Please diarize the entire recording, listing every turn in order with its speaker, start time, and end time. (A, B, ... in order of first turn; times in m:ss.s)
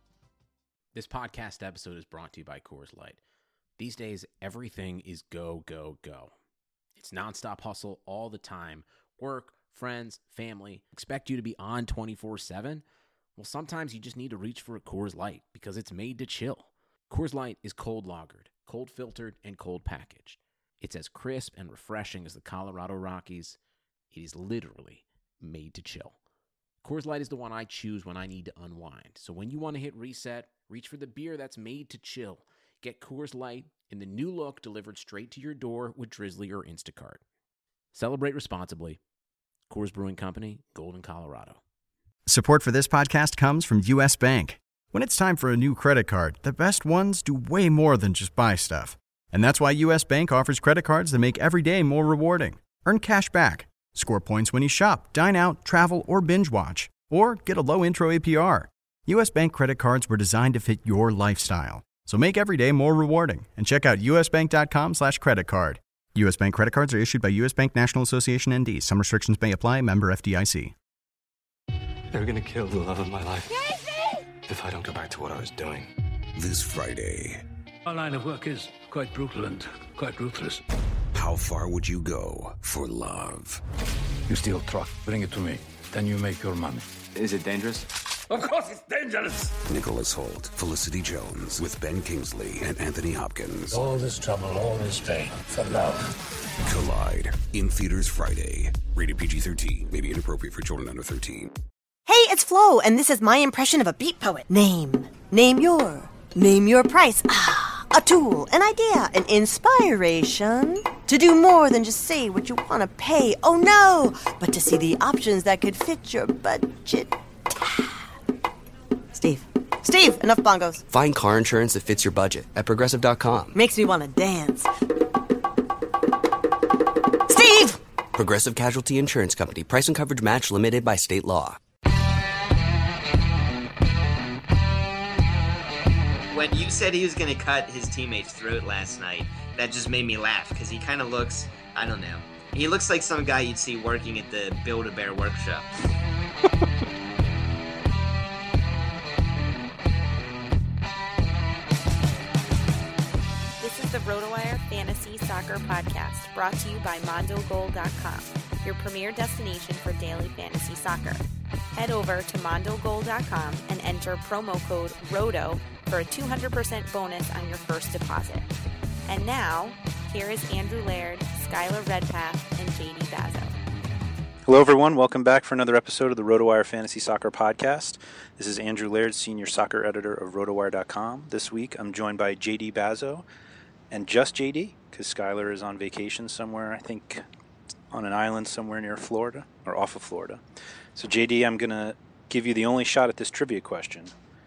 0:00.9-0:03.2 A
0:03.8-0:06.3 A
0:07.0-0:12.8 A
0:13.4-0:23.6 A
0:24.1-0:26.2 A
0:26.8-0:37.2 A
0:37.9-0:39.0 A
0:39.7-0:41.6 A
0:42.2-1:10.7 B
1:12.1-1:13.5 C
1:14.5-1:15.9 C
1:16.4-1:17.4 D
1:17.9-1:20.6 E
1:21.1-1:23.6 D
1:24.3-1:26.9 E
1:27.1-1:27.9 C
1:28.3-1:29.5 E
1:29.6-1:33.8 D
1:33.7-1:36.0 E
1:36.6-1:41.5 D
1:42.0-1:57.1 F
1:59.1-2:00.8 F
2:00.9-2:03.6 G
2:03.5-2:04.7 F
2:07.3-2:07.8 F
2:08.1-2:11.6 G
2:16.3-2:25.7 H
2:33.6-2:41.2 I
2:41.7-2:48.5 I
2:49.1-2:53.6 I
2:54.5-3:03.2 J
3:03.9-3:07.2 J
3:07.9-3:10.4 J
3:10.9-3:14.1 J